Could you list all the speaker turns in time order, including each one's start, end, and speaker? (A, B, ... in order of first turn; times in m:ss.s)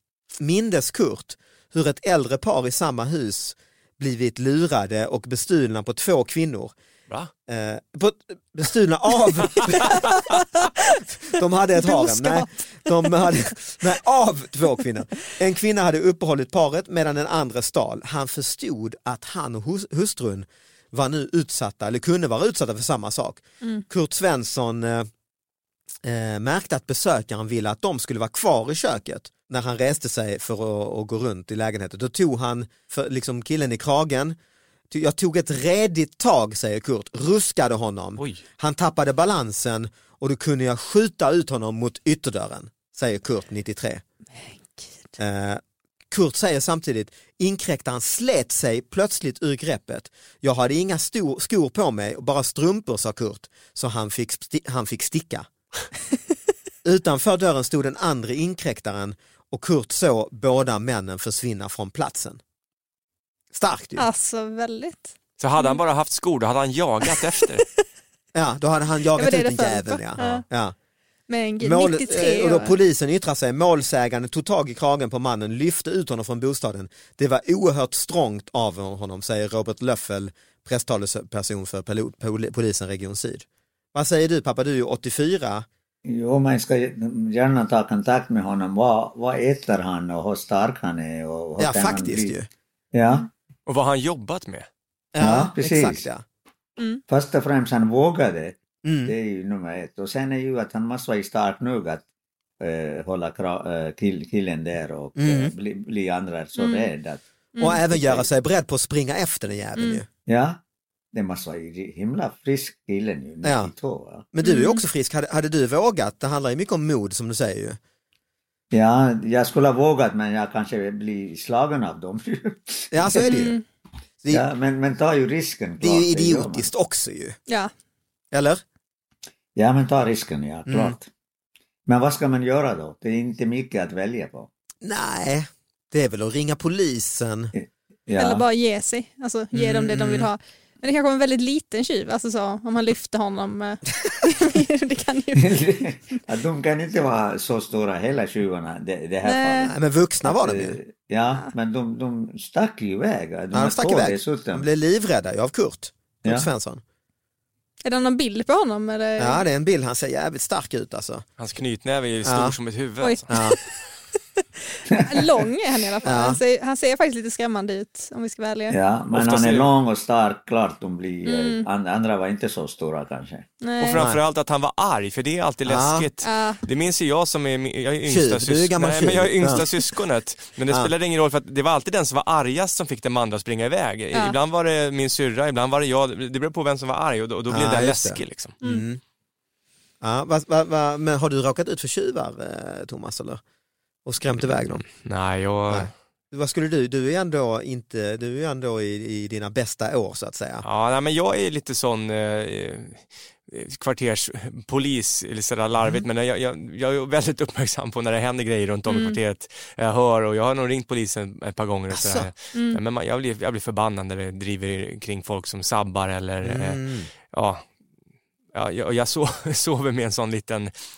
0:00.4-0:06.7 A
0:07.5-0:10.1 A
0:09.7-0:10.1 B
0:11.3-0:25.1 A
0:11.8-0:12.5 C
0:26.0-0:34.4 A
0:34.9-0:44.0 A
0:44.7-0:45.1 C
0:45.2-0:55.5 A
0:56.8-1:02.4 A
1:03.5-1:04.1 A
1:04.0-1:05.8 C
1:05.4-1:07.7 B
1:07.1-1:07.6 C
1:08.3-1:10.8 A
1:09.1-1:10.4 C
1:11.3-1:12.8 C
1:11.6-1:25.7 A
1:26.1-1:32.3 D
1:31.6-1:32.5 A
1:32.9-1:33.3 D
1:33.7-1:34.7 B
1:35.2-1:36.2 A
1:35.2-1:36.0 D
1:37.1-1:42.0 D
1:38.8-1:39.1 A
1:42.6-1:48.3 D
1:45.2-1:45.5 A
1:46.6-1:46.9 C
1:47.6-1:47.9 C
1:47.6-1:50.1 A
1:49.8-1:50.0 C
1:50.3-1:50.6 D
1:51.1-1:54.3 D
1:53.4-1:53.7 A
1:54.3-1:57.8 A
1:54.4-1:54.8 C
1:58.7-2:03.5 D
2:02.9-2:03.6 A
2:03.2-2:03.6 C
2:04.3-2:06.7 D
2:05.8-2:07.4 A
2:08.3-2:08.6 A
2:09.6-2:11.1 D
2:10.7-2:11.0 A
2:11.9-2:14.5 D
2:14.8-2:17.5 A
2:17.6-2:18.4 D
2:18.2-2:25.6 C
2:19.5-2:20.3 A
2:25.4-2:29.7 D
2:29.2-2:29.7 C
2:29.7-2:30.8 A
2:30.2-2:34.7 D
2:33.5-2:36.8 A
2:37.8-2:39.4 C
2:39.2-2:41.2 A
2:41.4-2:43.3 B
2:42.2-2:42.6 A
2:43.0-2:43.6 C
2:43.3-2:43.6 A
2:44.4-2:48.8 C
2:44.9-2:45.2 D
2:46.0-2:46.4 A
2:48.7-2:53.5 D
2:49.1-2:49.7 B
2:51.2-2:51.7 C
2:53.6-2:54.0 C
2:53.8-3:08.6 B
2:53.9-2:54.2 A
2:55.7-2:56.1 A
2:56.2-2:56.6 C
2:58.1-2:59.7 A
3:07.5-3:09.0 A
3:08.6-3:08.9 C
3:10.0-3:13.4 A
3:14.1-3:14.9 A
3:14.9-3:15.9 B
3:15.7-3:20.6 A
3:20.6-3:37.6 B
3:25.8-3:26.1 A
3:28.9-3:29.2 C
3:31.9-3:32.3 A
3:32.5-3:32.8 C
3:36.4-3:37.1 A
3:38.5-3:40.7 B